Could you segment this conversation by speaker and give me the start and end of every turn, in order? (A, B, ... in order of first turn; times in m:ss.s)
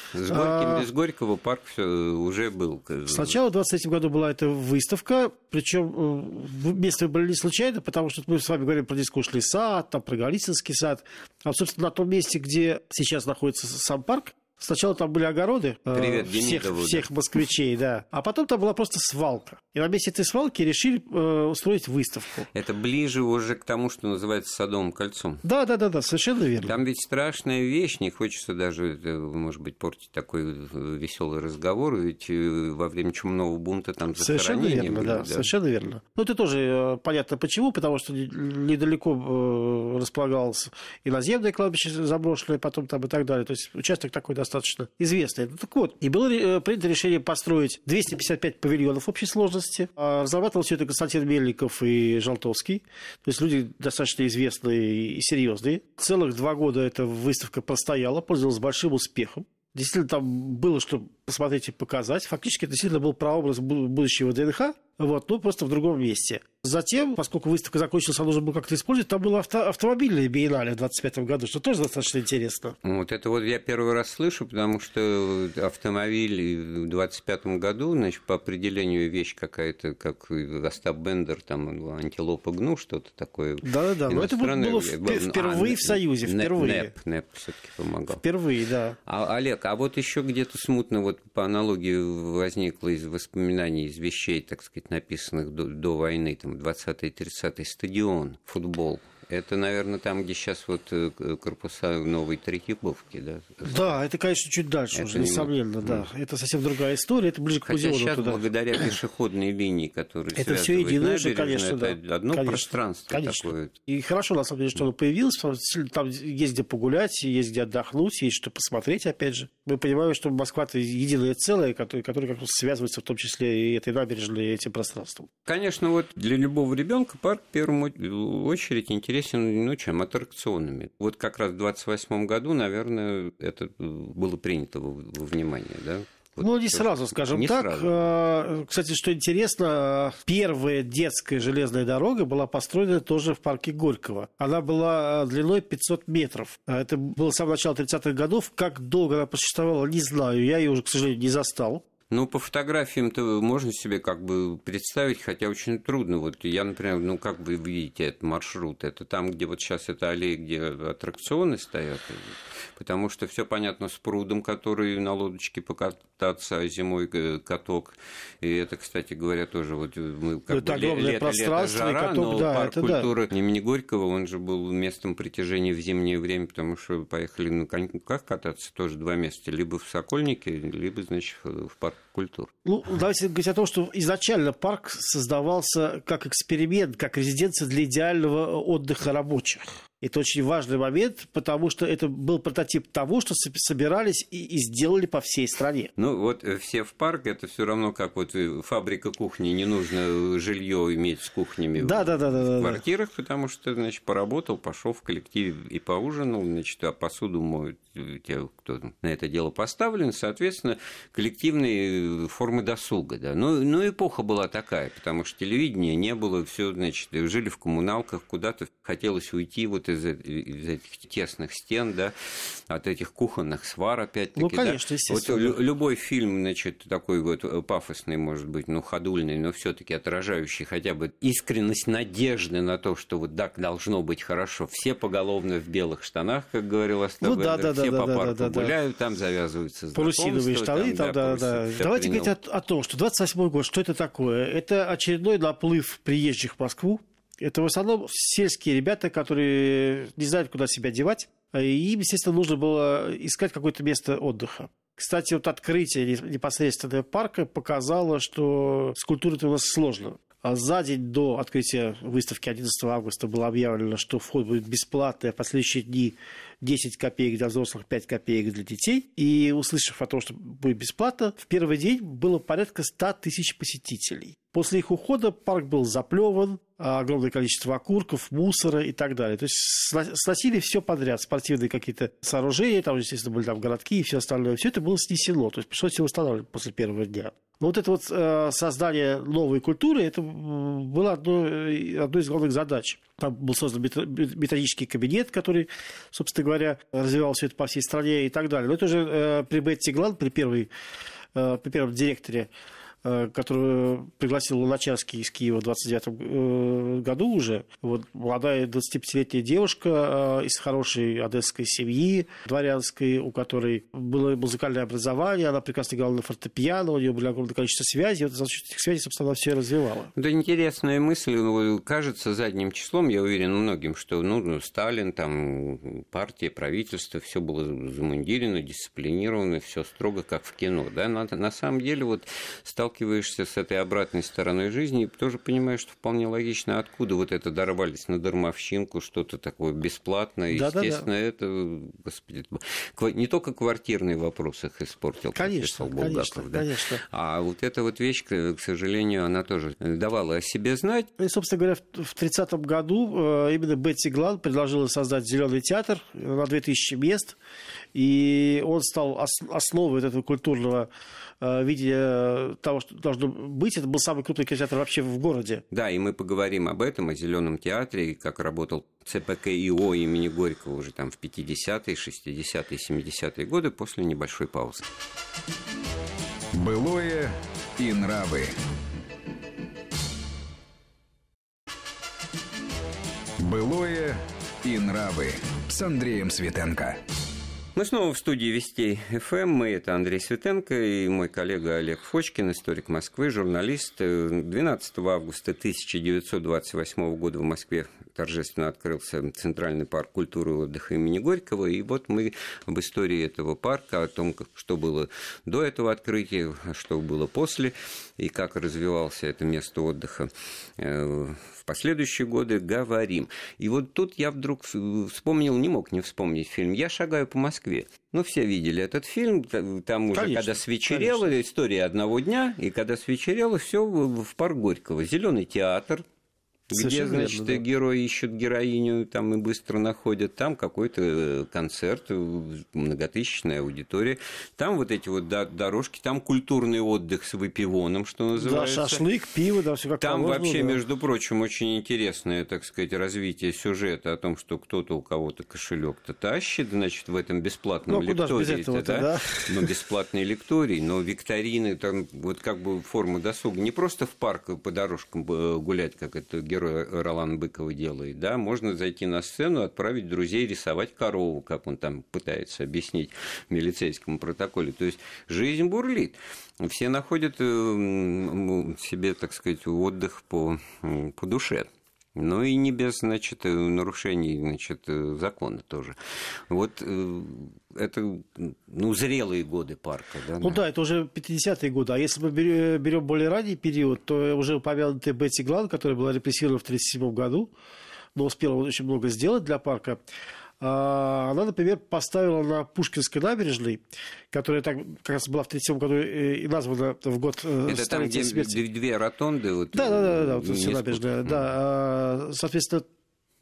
0:00.1-0:03.4 A
0:00.3-0:00.9 B
0:03.1-0:22.5 B
0:15.9-0:17.1 A
0:22.5-0:25.4 A
0:25.4-0:26.7 B
0:26.6-0:35.5 A
0:34.2-1:12.8 B
1:12.8-1:28.2 A
1:23.6-1:26.9 B
1:28.1-1:29.0 B
1:29.1-1:43.9 A
1:43.6-1:48.4 B
1:44.9-1:46.0 A
1:47.7-1:53.7 A
1:50.4-2:05.3 B
2:05.5-2:17.9 A
2:16.4-2:31.8 B
2:32.1-3:02.5 A
2:50.5-2:53.1 B
3:02.6-3:15.9 B
3:16.0-3:42.1 A
3:21.8-3:22.8 B
3:42.7-4:02.3 A
3:44.4-3:45.6 B
3:57.2-3:58.7 B
4:00.0-5:00.7 B
5:01.4-5:02.5 B
5:03.0-5:20.1 B
5:20.2-5:51.1 A
5:40.5-5:41.1 B
5:45.4-5:47.0 B
5:51.2-5:57.4 B
5:58.0-6:00.9 B
6:01.4-6:05.6 B
6:05.7-6:14.8 A
6:16.5-6:18.6 C
6:23.4-6:27.0 C
6:27.8-7:06.0 A
7:00.1-7:01.3 B
7:06.7-7:19.0 A
7:06.7-7:07.6 B
7:18.4-7:20.8 B
7:20.0-7:56.0 A
7:27.9-7:29.7 B
7:56.5-8:00.6 A
8:00.4-8:07.5 B
8:08.2-8:10.0 B
8:10.6-8:18.6 B
8:17.7-8:21.5 A
8:19.7-8:22.9 B